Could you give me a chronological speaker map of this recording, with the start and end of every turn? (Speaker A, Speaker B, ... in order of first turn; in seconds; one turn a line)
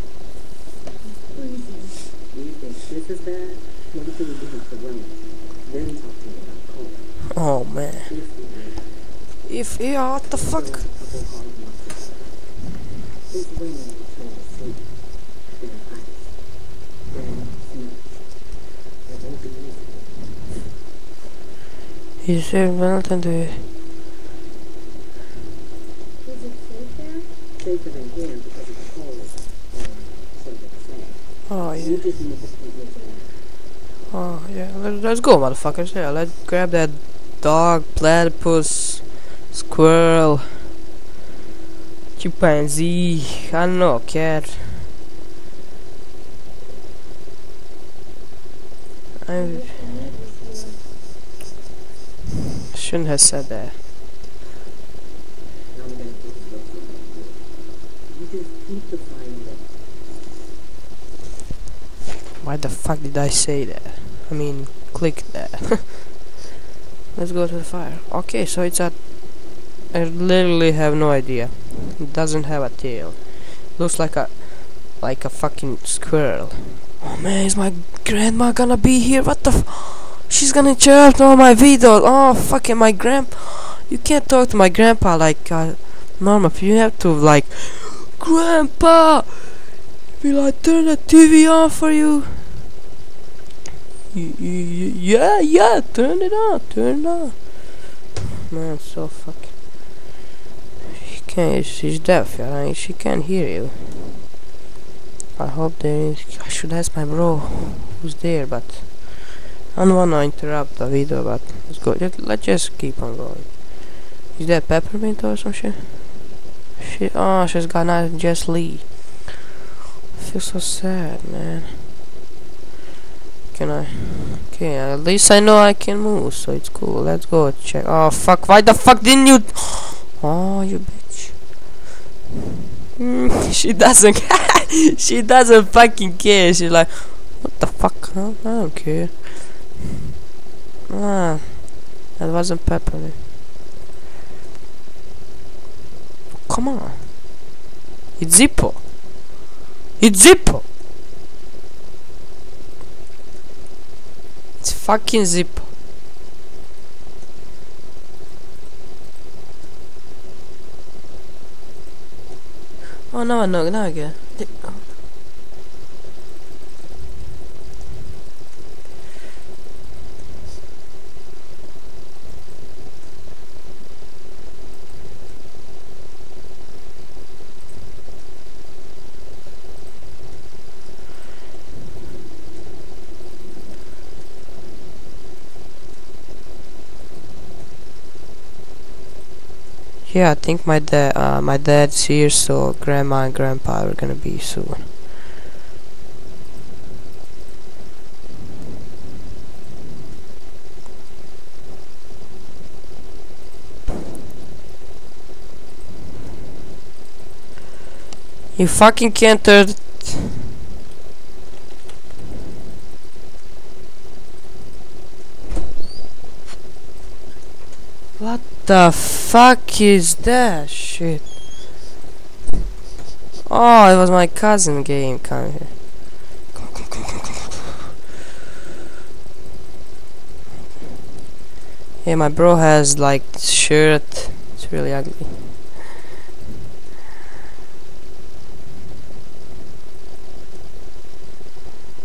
Speaker A: 1.0-2.0
Speaker B: 2.3-7.2
Speaker C: 7.3-8.1
Speaker B: 8.1-9.0
Speaker C: 9.4-10.8
Speaker B: 10.3-12.5
Speaker B: 13.3-20.4
Speaker C: 22.2-23.7
Speaker A: 26.2-27.3
Speaker B: 27.6-33.2
Speaker C: 31.5-32.0
Speaker A: 32.8-33.3
Speaker C: 34.1-40.7
Speaker C: 42.2-44.9
Speaker C: 49.2-49.8
Speaker A: 49.3-50.9
Speaker C: 52.7-53.8
Speaker B: 55.7-59.8
Speaker C: 62.4-66.1
Speaker C: 67.2-89.7
Speaker C: 90.2-92.6
Speaker C: 94.1-97.9
Speaker C: 98.5-99.8
Speaker C: 101.0-104.3
Speaker C: 105.4-116.2
Speaker C: 116.8-119.2
Speaker C: 120.1-121.9
Speaker C: 123.5-131.4
Speaker C: 133.0-139.7
Speaker C: 140.9-143.2
Speaker C: 146.4-147.1
Speaker C: 148.2-148.8
Speaker C: 150.0-150.7
Speaker C: 154.6-155.7
Speaker C: 163.1-164.8
Speaker C: 190.1-194.9
Speaker C: 208.6-210.5
Speaker C: 218.2-221.3
Speaker C: 223.5-227.6
Speaker C: 232.0-235.7